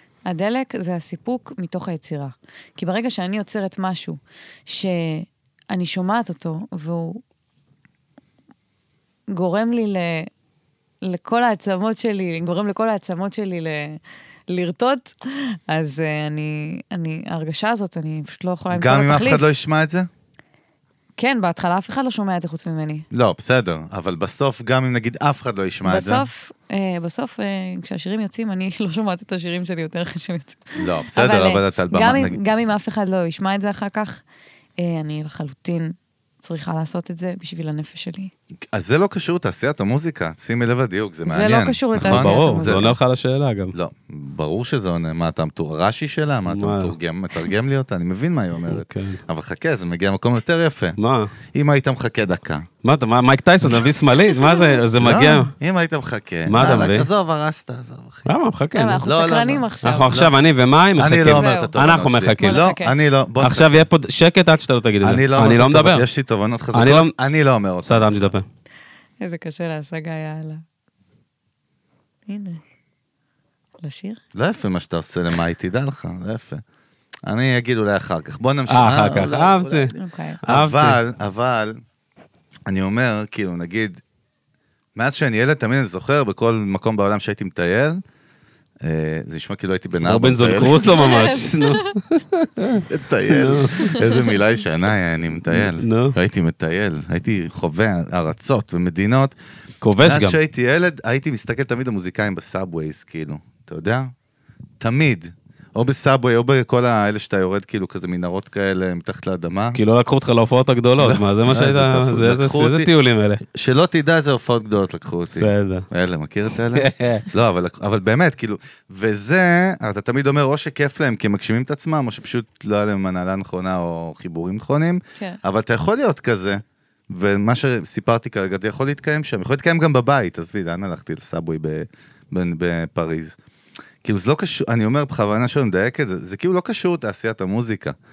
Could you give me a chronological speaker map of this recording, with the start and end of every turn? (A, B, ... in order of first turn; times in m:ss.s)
0:00.3-0:07.2 A
0:09.3-0:10.3 A
0:11.0-0:19.5 A
0:18.7-0:20.1 B
0:21.2-0:23.1 A
0:23.1-0:26.3 B
0:25.8-0:34.2 A
0:30.8-0:32.4 B
0:34.8-0:38.3 A
0:38.7-0:42.9 B
0:41.3-0:42.9 A
0:42.0-0:43.7 C
0:43.7-0:51.0 B
0:46.5-0:46.9 C
0:48.7-0:49.2 C
0:51.0-0:51.3 C
0:51.5-0:52.7 B
0:52.8-0:55.5 C
0:54.4-0:54.7 A
0:55.0-0:58.3 B
0:56.5-0:57.1 C
0:58.3-0:59.0 C
0:58.8-1:00.2 A
0:59.0-1:00.3 B
0:59.8-1:02.6 C
1:01.0-1:03.8 B
1:01.3-1:01.7 A
1:02.4-1:03.0 A
1:03.4-1:06.0 C
1:05.0-1:08.3 B
1:06.7-1:07.1 C
1:07.8-1:08.4 C
1:09.2-1:10.6 A
1:12.3-1:12.6 A
1:13.8-1:14.2 A
1:14.3-1:16.6 B
1:17.3-1:21.8 B
1:18.7-1:19.9 C
1:20.0-1:20.4 A
1:20.5-1:21.0 C
1:22.7-1:24.0 B
1:25.0-1:28.0 B
1:28.8-1:31.0 B
1:30.0-1:34.0 C
1:30.7-1:31.9 A
1:32.9-1:39.4 B
1:35.5-1:36.2 C
1:39.8-1:40.4 C
1:40.0-1:44.1 B
1:44.8-1:49.8 B
1:49.8-1:53.4 C
1:51.0-1:52.9 B
1:53.4-2:13.4 B
1:55.3-1:55.9 C
1:56.7-1:57.3 C
2:14.0-2:18.0 B